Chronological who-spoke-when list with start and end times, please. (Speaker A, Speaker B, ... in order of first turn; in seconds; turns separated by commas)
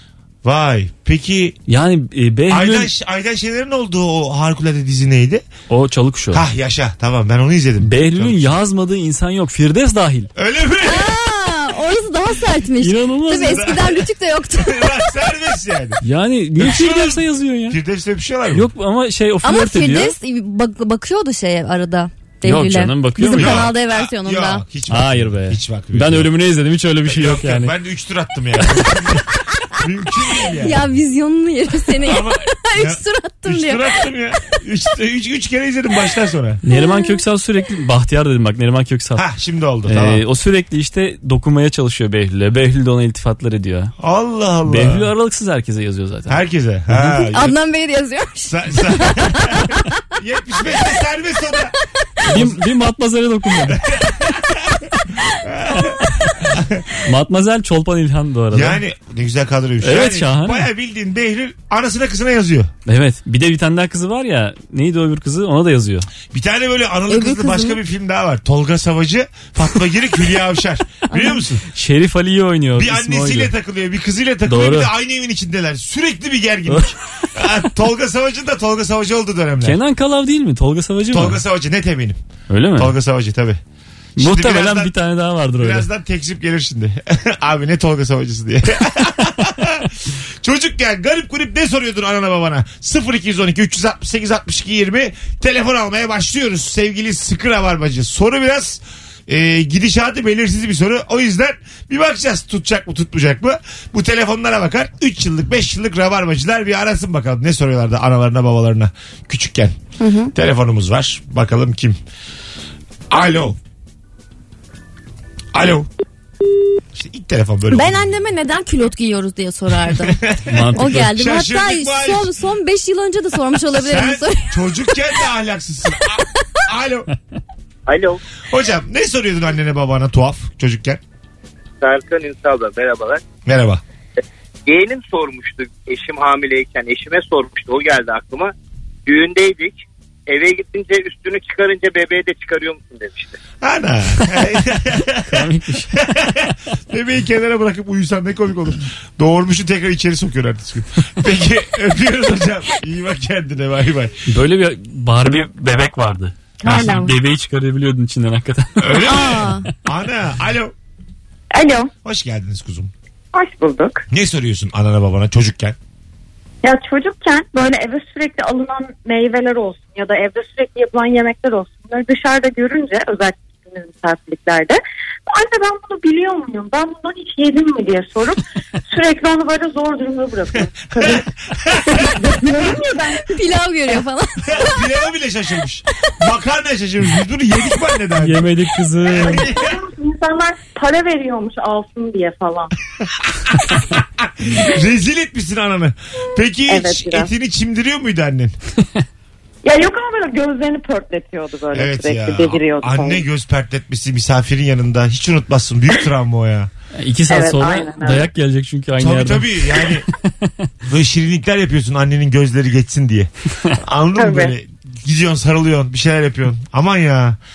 Speaker A: 0.4-1.6, Speaker B: 1.7-2.9, Speaker A: 2.5-5.5, Speaker B: 5.7-6.4, Speaker A: 6.3-8.6, Speaker B: 7.8-10.3, Speaker A: 10.3-11.1, Speaker C: 10.8-15.1, Speaker B: 12.8-13.8, Speaker A: 13.6-14.0, Speaker A: 14.6-16.0, Speaker B: 16.0-17.8, Speaker A: 16.6-18.7, Speaker B: 18.5-20.1, Speaker C: 19.4-24.6, Speaker B: 22.4-23.7, Speaker A: 23.3-26.3, Speaker B: 24.9-27.8, Speaker A: 27.1-30.8, Speaker C: 30.4-33.9, Speaker A: 32.0-36.6, Speaker B: 36.6-39.2, Speaker C: 36.7-37.2, Speaker A: 39.2-40.2, Speaker B: 39.9-43.9, Speaker A: 44.0-45.1, Speaker B: 44.7-47.2, Speaker A: 46.3-47.6, Speaker C: 47.3-50.0, Speaker A: 48.5-51.7, Speaker A: 52.2-52.6, Speaker B: 52.2-53.8, Speaker A: 53.7-56.8, Speaker B: 57.0-58.8, Speaker A: 58.5-62.7, Speaker B: 59.8-60.7, Speaker B: 62.9-66.1, Speaker A: 66.3-71.6, Speaker C: 67.1-67.8, Speaker C: 71.1-71.4, Speaker B: 71.7-73.5, Speaker A: 72.8-79.8, Speaker B: 74.5-74.9, Speaker B: 76.7-76.9, Speaker B: 79.6-81.4, Speaker A: 81.1-82.2, Speaker B: 82.5-82.9, Speaker A: 82.8-83.6, Speaker A: 84.2-84.9, Speaker B: 84.2-85.9, Speaker A: 85.6-109.8, Speaker C: 110.0-110.3, Speaker A: 110.3-112.0, Speaker A: 113.1-113.6, Speaker A: 115.5-115.9, Speaker A: 116.9-118.1, Speaker C: 117.7-120.2, Speaker A: 119.8-122.3, Speaker B: 120.5-121.1, Speaker C: 120.8-124.9, Speaker A: 123.7-127.1, Speaker D: 127.9-128.2, Speaker A: 128.5-131.0, Speaker D: 131.8-133.2, Speaker A: 133.4-133.8, Speaker D: 134.7-138.5, Speaker D: 139.1-143.4, Speaker A: 143.6-154.2, Speaker B: 145.3-146.0, Speaker B: 154.3-159.1, Speaker E: 156.6-157.1, Speaker A: 158.8-160.7, Speaker C: 159.0-159.7, Speaker E: 161.5-161.9, Speaker A: 162.0-162.9, Speaker E: 163.3-164.1, Speaker A: 164.1-165.8, Speaker E: 166.6-181.3, Speaker A: 181.0-182.2, Speaker E: 181.8-183.4, Speaker C: 183.3-184.8, Speaker A: 184.4-188.5, Speaker B: 188.2-189.4, Speaker A: 189.0-189.8, Speaker E: 189.2-192.7, Speaker A: 193.2-198.5, Speaker E: 196.7-197.3, Speaker E: 199.6-203.2, Speaker A: 201.7-206.7, Speaker B: 206.9-209.9, Speaker E: 207.3-208.3, Speaker A: 209.0-210.1, Speaker A: 210.9-217.4, Speaker E: 214.2-214.5